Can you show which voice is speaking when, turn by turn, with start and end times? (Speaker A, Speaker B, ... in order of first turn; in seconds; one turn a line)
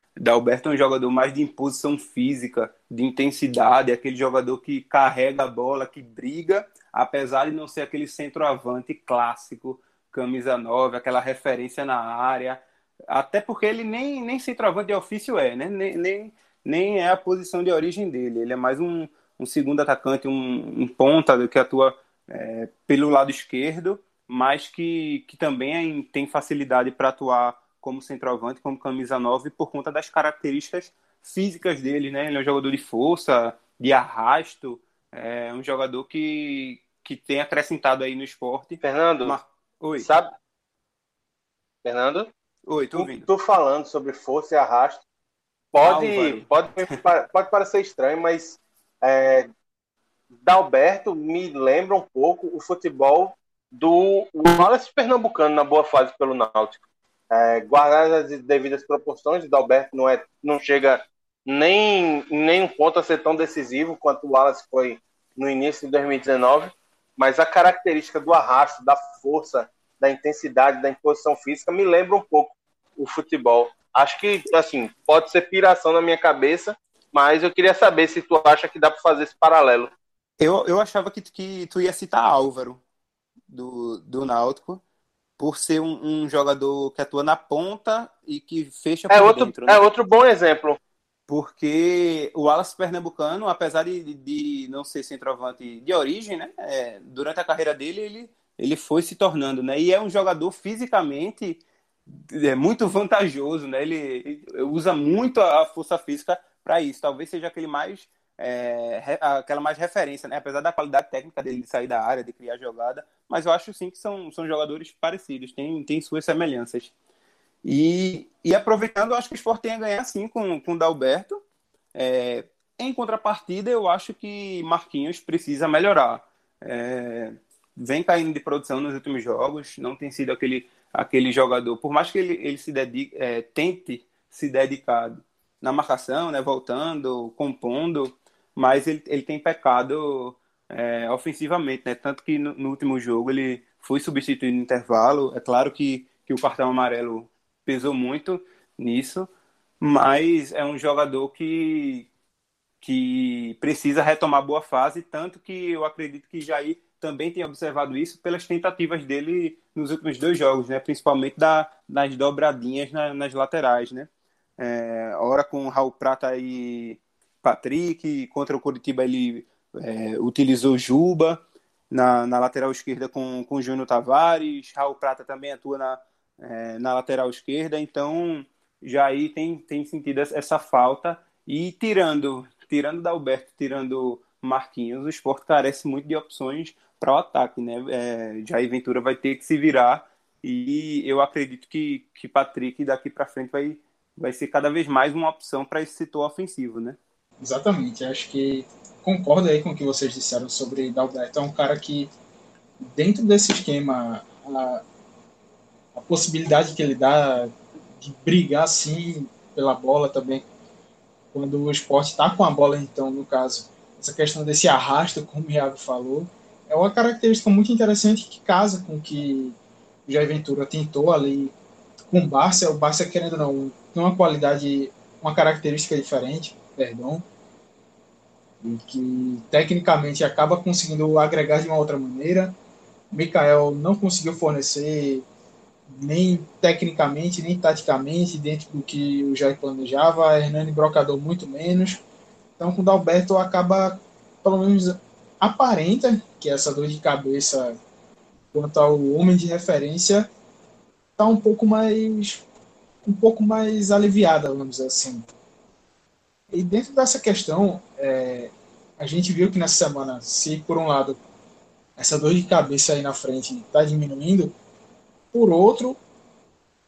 Speaker A: 0.2-40.1
Speaker B: 38.8-39.4
Speaker B: 40.0-40.3
Speaker B: 41.8-42.3
Speaker A: 42.7-43.3
Speaker B: 43.0-45.0
Speaker B: 45.7-49.5
Speaker A: 45.8-47.0
Speaker B: 50.4-56.8
Speaker B: 57.3-79.9
Speaker A: 80.4-82.8
Speaker A: 83.5-84.8
Speaker A: 85.4-89.8
Speaker B: 89.1-90.8
Speaker A: 91.3-101.6
Speaker A: 102.3-116.9
Speaker A: 117.6-121.4
Speaker A: 122.0-149.3
Speaker A: 149.8-152.1
Speaker A: 152.8-197.0
Speaker C: 197.4-202.1
Speaker C: 202.8-204.8
Speaker C: 205.9-210.4
Speaker C: 211.3-221.5
Speaker C: 222.1-227.2
Speaker C: 228.6-232.6
Speaker C: 233.1-235.2
Speaker C: 235.9-242.0
Speaker C: 242.6-247.8
Speaker C: 248.5-250.3
Speaker C: 251.2-252.4
Speaker C: 253.0-255.3
Speaker C: 256.5-261.2
Speaker C: 261.9-264.6
Speaker C: 265.3-266.0